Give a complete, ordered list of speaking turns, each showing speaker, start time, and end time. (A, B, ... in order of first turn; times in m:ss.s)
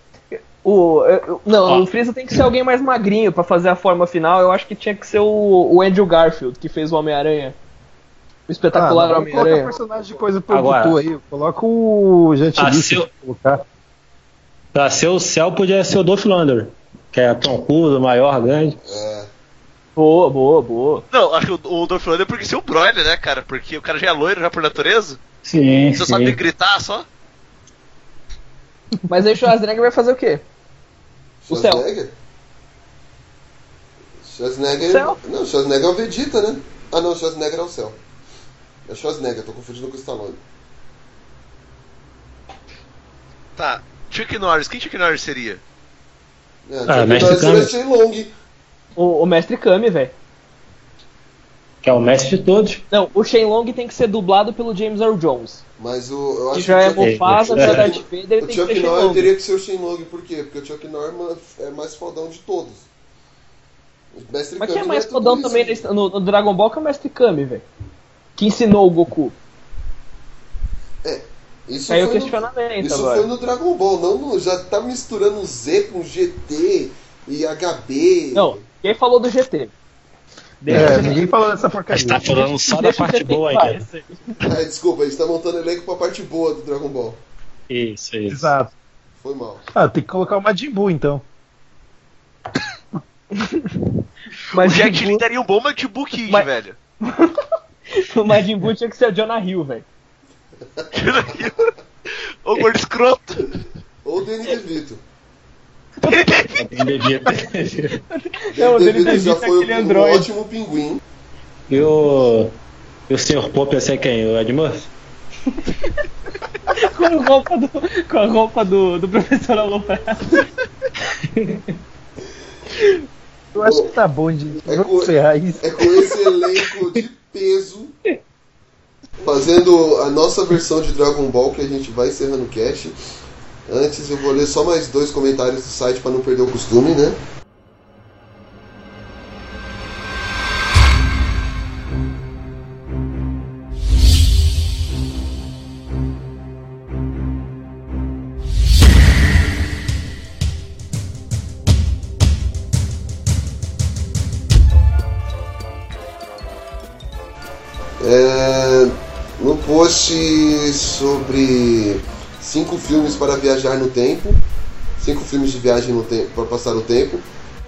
0:00.3-0:07.6 A
0:01.6-0:01.9 B
0:08.5-0:09.7 A
0:08.7-0:13.0 C
0:10.5-0:11.0 B
0:12.6-0:13.6 B
0:14.7-0:18.8 B
0:18.8-0:19.3 D
0:20.0-0:21.0 A
0:21.1-0:25.2 E
0:25.4-0:26.4 B
0:25.9-0:27.1 E
0:29.1-0:30.4 A
0:31.4-0:32.1 D
0:31.5-0:31.8 A
0:34.2-0:38.0 D
0:34.9-0:35.2 A
0:38.9-0:40.4 D
0:43.6-0:45.6 E
0:46.7-0:48.3 D
0:46.9-0:47.7 B
0:49.0-0:50.1 A
0:51.8-0:52.8 B
0:52.9-0:55.6 A
0:55.8-1:02.9 D
0:56.5-0:59.3 A
0:57.0-0:57.9 B
1:04.1-1:05.8 D
1:04.6-1:07.6 A
1:08.4-1:09.4 A
1:11.0-1:18.6 D
1:11.9-1:13.3 A
1:18.4-1:19.7 A
1:20.6-1:21.2 A
1:20.7-1:22.4 C
1:20.7-1:21.2 B
1:21.9-1:23.8 B
1:22.6-1:24.2 A
1:24.4-1:27.2 D
1:27.7-1:28.6 B
1:28.3-1:28.7 C
1:29.2-1:29.6 D
1:29.7-1:31.2 C
1:34.5-1:35.2 A
1:34.6-1:36.8 E
1:37.1-1:37.3 A
1:38.0-1:39.9 A
1:40.9-1:41.7 E
1:42.4-1:43.6 E
1:44.0-1:45.0 D
1:46.0-1:46.5 E
1:46.6-1:48.0 B
1:48.5-1:51.0 D
1:48.6-1:50.3 A
1:51.7-1:52.5 B
1:53.1-1:54.9 B
1:56.7-2:00.4 A
2:01.0-2:01.7 B
2:03.5-2:06.1 C
2:04.6-2:08.0 D
2:09.2-2:13.0 D
2:13.7-2:17.2 D
2:38.0-2:44.4 D
2:45.0-2:47.2 D